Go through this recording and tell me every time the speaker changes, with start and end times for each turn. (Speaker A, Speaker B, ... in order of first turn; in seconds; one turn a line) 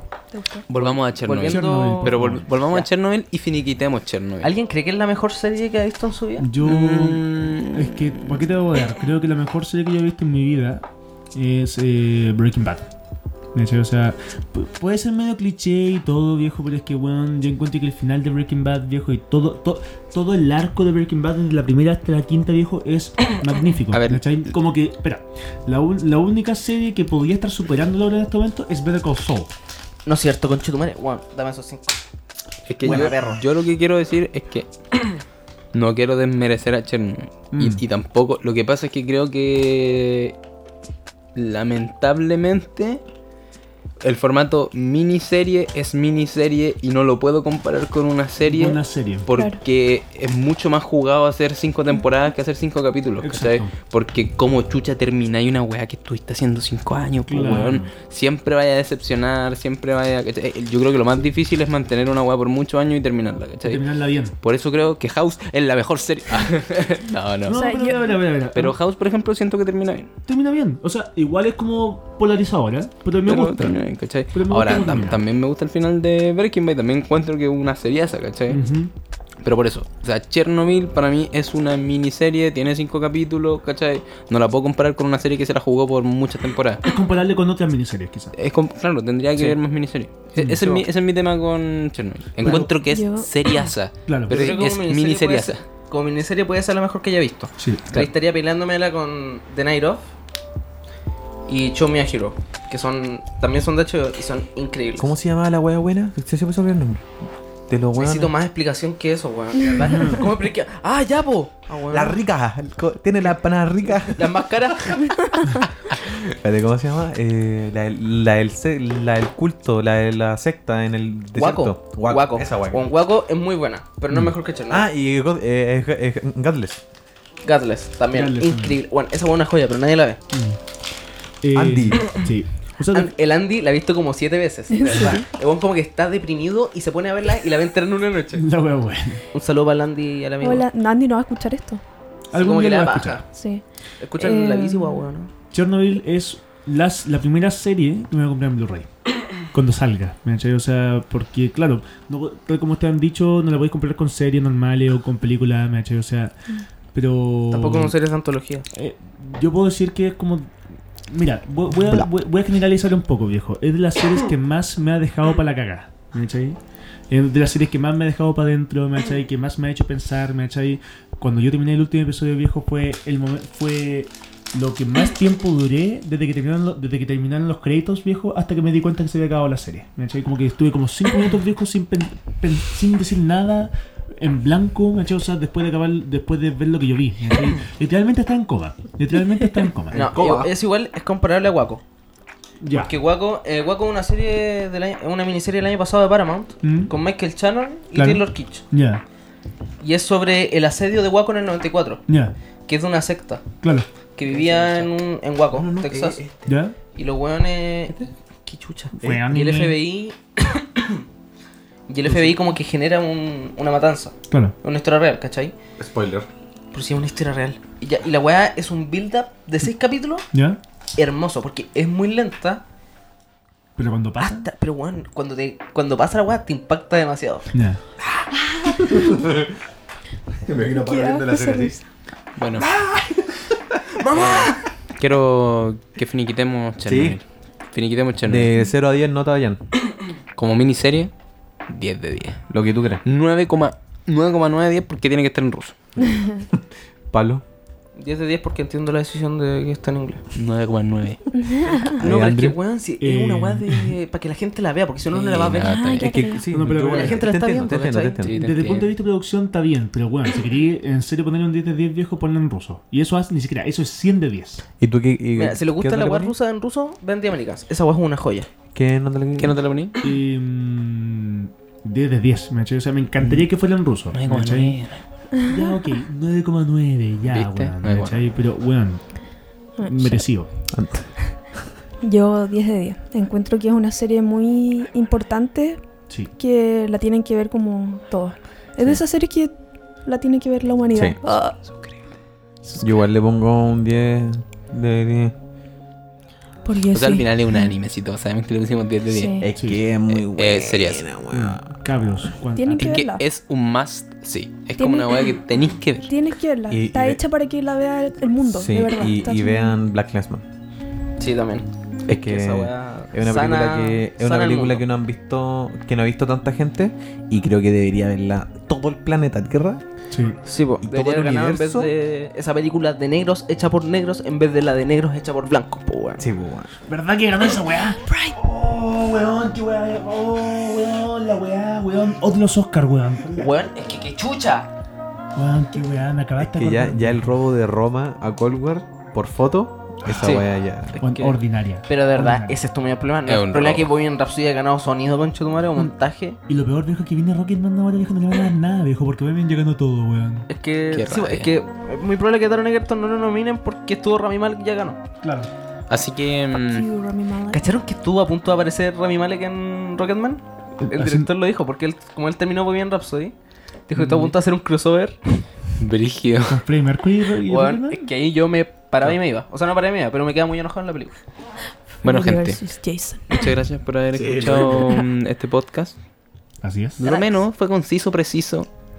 Speaker A: 0.3-0.7
Speaker B: 0.7-4.5
Speaker C: 1.2-2.9
Speaker D: 1.4-2.4
Speaker C: 4.4-6.5
Speaker D: 6.4-12.9
Speaker B: 6.6-8.4
Speaker D: 13.5-29.5
Speaker B: 23.9-24.4
Speaker C: 30.1-32.0
Speaker B: 32.7-34.7
Speaker C: 32.8-33.4
Speaker B: 35.7-40.4
Speaker D: 37.5-37.8
Speaker B: 41.4-43.0
Speaker B: 44.0-63.8
Speaker D: 48.4-49.3
Speaker A: 49.3-49.6
Speaker D: 53.2-53.7
Speaker D: 57.3-57.9
Speaker D: 63.6-64.3
Speaker B: 64.4-67.6
Speaker D: 67.5-68.8
Speaker A: 67.5-68.2
Speaker B: 68.5-70.1
Speaker D: 70.3-75.2
Speaker B: 73.2-78.6
Speaker D: 78.5-78.9
Speaker B: 79.4-86.8
Speaker D: 86.8-88.3
Speaker B: 88.3-95.6
Speaker D: 90.4-90.8
Speaker D: 92.4-92.7
Speaker A: 92.8-93.3
Speaker D: 94.1-94.6
Speaker C: 94.3-100.0
Speaker D: 97.6-98.0
Speaker C: 101.5-105.1
Speaker E: 105.0-107.0
Speaker E: 107.7-108.3
Speaker C: 108.0-112.2
Speaker D: 109.9-110.2
Speaker E: 111.9-114.5
Speaker C: 113.9-115.4
Speaker E: 115.9-122.9
Speaker C: 121.4-124.9
Speaker E: 124.7-126.8
Speaker C: 127.4-130.2
Speaker D: 128.1-128.8
Speaker D: 130.3-130.6
Speaker D: 131.4-133.1
Speaker E: 131.5-132.2
Speaker C: 132.9-138.4
Speaker A: 134.7-135.3
Speaker D: 138.3-139.2
Speaker C: 139.3-140.7
Speaker A: 140.4-141.8
Speaker D: 142.3-143.2
Speaker C: 142.3-143.3
Speaker A: 143.3-143.6
Speaker C: 144.0-145.3
Speaker A: 144.2-145.0
Speaker D: 145.5-148.9
Speaker D: 149.4-156.3
Speaker D: 156.9-157.9
Speaker C: 157.5-158.7
Speaker D: 158.7-160.5
Speaker D: 161.1-166.6
Speaker D: 167.1-190.5
Speaker C: 189.9-191.8
Speaker E: 189.9-190.4
Speaker D: 192.6-192.9
Speaker C: 192.7-198.6
Speaker D: 196.6-196.9
Speaker D: 197.9-199.0
Speaker C: 199.8-202.0
Speaker D: 202.1-202.3
Speaker C: 202.7-203.4
Speaker D: 203.6-203.9
Speaker C: 204.2-206.2
Speaker B: 204.3-204.9
Speaker E: 205.5-206.6
Speaker D: 206.5-206.8
Speaker C: 206.9-211.1
Speaker D: 209.0-209.8
Speaker C: 211.9-215.6
Speaker D: 214.3-214.6
Speaker E: 215.8-216.3
Speaker C: 216.7-220.3
Speaker D: 220.3-220.6
Speaker C: 220.9-222.6
Speaker D: 223.8-224.5
Speaker C: 224.2-227.5
Speaker D: 227.5-227.8
Speaker A: 228.5-228.9
Speaker E: 228.6-229.6
Speaker E: 230.4-231.8
Speaker A: 230.7-231.8
Speaker B: 232.4-232.7
Speaker C: 232.6-233.2
Speaker C: 233.9-234.7
Speaker E: 234.1-234.6
Speaker B: 235.0-238.6
Speaker E: 236.8-237.2
Speaker E: 238.3-239.6
Speaker B: 240.4-241.1
Speaker B: 241.7-242.5
Speaker E: 242.5-243.0
Speaker B: 243.1-245.8
Speaker E: 246.5-247.4
Speaker C: 248.0-250.2
Speaker B: 250.3-251.3
Speaker A: 251.3-252.0
Speaker C: 251.6-255.9
Speaker E: 252.0-252.6
Speaker D: 253.0-253.9
Speaker B: 255.1-256.4
Speaker A: 255.6-256.5
Speaker E: 256.0-258.4
Speaker D: 256.5-257.2
Speaker C: 256.8-258.2
Speaker B: 258.2-258.9
Speaker D: 258.3-264.6
Speaker E: 264.8-266.4
Speaker C: 265.4-268.5
Speaker E: 268.7-269.6
Speaker B: 269.4-270.0
Speaker D: 270.0-274.8
Speaker E: 273.2-273.5
Speaker B: 274.1-275.0
Speaker A: 275.3-275.8
Speaker D: 275.5-279.0
Speaker B: 277.3-278.2
Speaker A: 279.8-280.3
Speaker D: 279.8-280.5
Speaker E: 280.7-281.1
Speaker A: 282.0-285.8
Speaker A: 286.4-289.5
Speaker A: 290.1-291.6
Speaker E: 292.8-295.3
Speaker A: 296.6-297.7
Speaker B: 296.9-299.5
Speaker A: 299.1-299.5
Speaker E: 299.4-301.7
Speaker D: 299.6-299.8
Speaker B: 300.1-301.1
Speaker D: 301.3-303.0
Speaker A: 302.6-303.2
Speaker B: 302.8-306.1
Speaker A: 304.8-305.4
Speaker A: 306.1-309.8
Speaker E: 306.7-307.2
Speaker E: 308.5-310.4
Speaker C: 311.2-314.9
Speaker E: 312.1-319.8
Speaker D: 320.1-320.4
Speaker C: 320.4-326.3
Speaker E: 320.8-321.9
Speaker E: 326.2-326.7
Speaker D: 326.9-333.5
Speaker C: 333.4-334.7
Speaker D: 335.4-337.4
Speaker E: 336.4-341.0
Speaker C: 340.1-340.5
Speaker C: 341.0-346.4
Speaker D: 341.0-342.6
Speaker B: 343.3-343.9
Speaker D: 346.5-350.5
Speaker C: 350.5-355.0
Speaker B: 350.9-351.5
Speaker D: 355.2-355.5
Speaker B: 355.9-356.9
Speaker A: 356.6-357.7
Speaker C: 357.5-363.3
Speaker D: 360.8-361.3
Speaker C: 363.9-365.4
Speaker D: 364.0-364.3
Speaker B: 365.8-366.6
Speaker D: 366.5-368.1
Speaker C: 367.5-371.1
Speaker B: 372.0-372.6
Speaker A: 372.0-373.5
Speaker B: 373.3-375.9
Speaker E: 374.1-374.9
Speaker D: 376.6-377.0
Speaker B: 377.0-378.7
Speaker C: 377.0-377.4